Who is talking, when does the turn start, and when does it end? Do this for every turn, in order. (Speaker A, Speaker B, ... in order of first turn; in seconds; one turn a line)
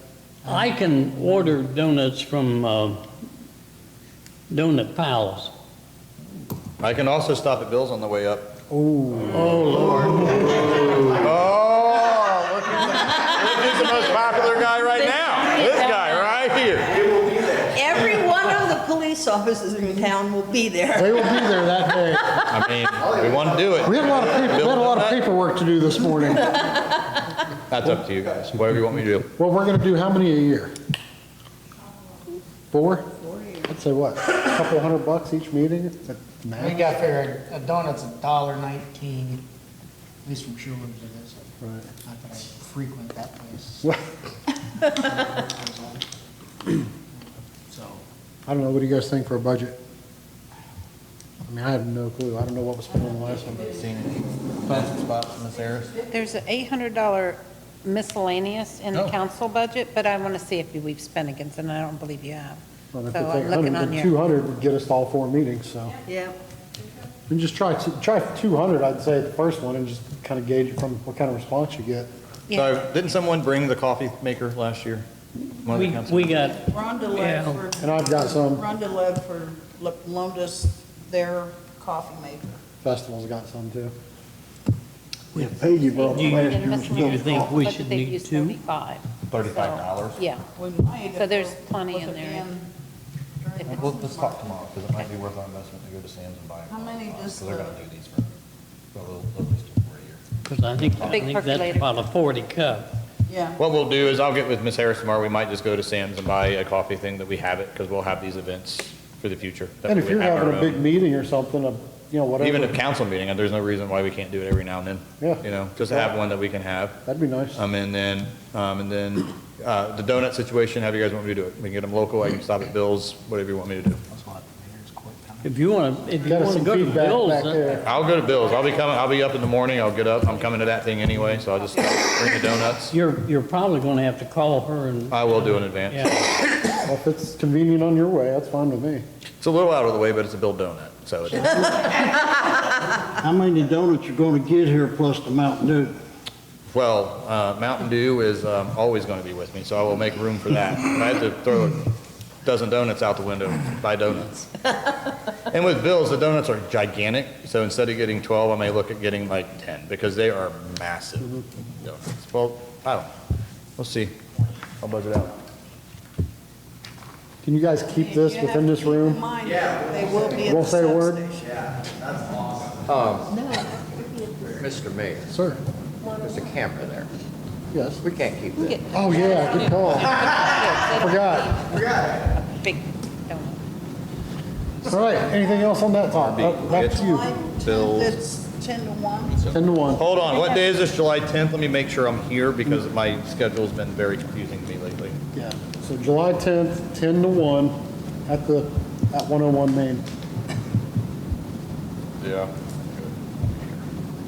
Speaker A: 0.5-3.0
Speaker A: 4.5-5.5
Speaker B: 6.8-8.6
Speaker C: 8.7-10.6
Speaker A: 9.3-11.2
Speaker B: 11.2-17.4
Speaker D: 15.2-16.1
Speaker E: 17.7-22.1
Speaker C: 20.9-22.5
Speaker B: 22.5-25.2
Speaker C: 23.8-26.9
Speaker B: 27.7-29.3
Speaker C: 29.4-30.7
Speaker C: 32.7-33.1
Speaker C: 33.6-37.0
Speaker F: 36.6-39.4
Speaker F: 40.2-41.5
Speaker C: 41.6-41.9
Speaker F: 42.0-43.9
Speaker F: 44.9-46.0
Speaker F: 47.7-48.0
Speaker C: 48.5-49.8
Speaker C: 51.5-53.8
Speaker B: 53.6-56.0
Speaker D: 56.0-62.6
Speaker C: 62.9-66.0
Speaker D: 63.1-64.1
Speaker E: 66.1-66.4
Speaker C: 67.3-72.1
Speaker D: 72.5-72.8
Speaker B: 72.5-75.1
Speaker B: 75.6-76.4
Speaker A: 75.7-77.6
Speaker G: 76.5-82.6
Speaker C: 77.8-78.7
Speaker C: 82.8-83.9
Speaker H: 85.3-87.4
Speaker A: 85.3-88.6
Speaker D: 85.8-90.5
Speaker B: 89.3-90.2
Speaker G: 90.6-92.7
Speaker D: 91.1-92.5
Speaker G: 93.4-94.5
Speaker B: 93.7-98.3
Speaker G: 96.7-97.8
Speaker B: 98.9-100.2
Speaker A: 100.5-102.9
Speaker B: 100.8-101.2
Speaker D: 101.0-102.0
Speaker G: 103.3-103.6
Speaker B: 103.6-110.8
Speaker C: 109.9-112.8
Speaker B: 112.4-117.0
Speaker C: 115.2-116.2
Speaker C: 117.0-117.6
Speaker B: 117.6-124.0
Speaker F: 124.2-125.5
Speaker A: 125.4-127.8
Speaker C: 126.2-127.9
Speaker B: 127.8-132.9
Speaker A: 132.9-136.3
Speaker B: 135.1-136.1
Speaker C: 136.8-139.0
Speaker B: 139.4-142.1
Speaker H: 143.1-145.9
Speaker B: 146.7-151.9
Speaker B: 152.4-154.7
Speaker B: 155.5-163.1
Speaker B: 163.8-164.1
Speaker B: 164.8-165.3
Speaker C: 167.4-169.3
Speaker G: 167.9-171.6
Speaker C: 170.2-171.2
Speaker B: 172.1-172.8
Speaker I: 172.9-173.3
Speaker E: 173.9-174.3
Speaker I: 174.6-175.3
Speaker C: 175.3-175.6
Speaker I: 176.2-177.1
Speaker C: 177.7-178.1
Speaker I: 178.0-178.8
Speaker D: 178.6-183.6
Speaker C: 178.8-180.2
Speaker C: 180.9-181.6
Speaker C: 184.9-187.3
Speaker B: 186.1-187.1
Speaker G: 186.6-189.6
Speaker B: 187.6-188.2
Speaker C: 189.5-190.1
Speaker B: 190.0-195.2
Speaker C: 195.3-197.8
Speaker C: 198.3-200.1
Speaker B: 202.2-203.8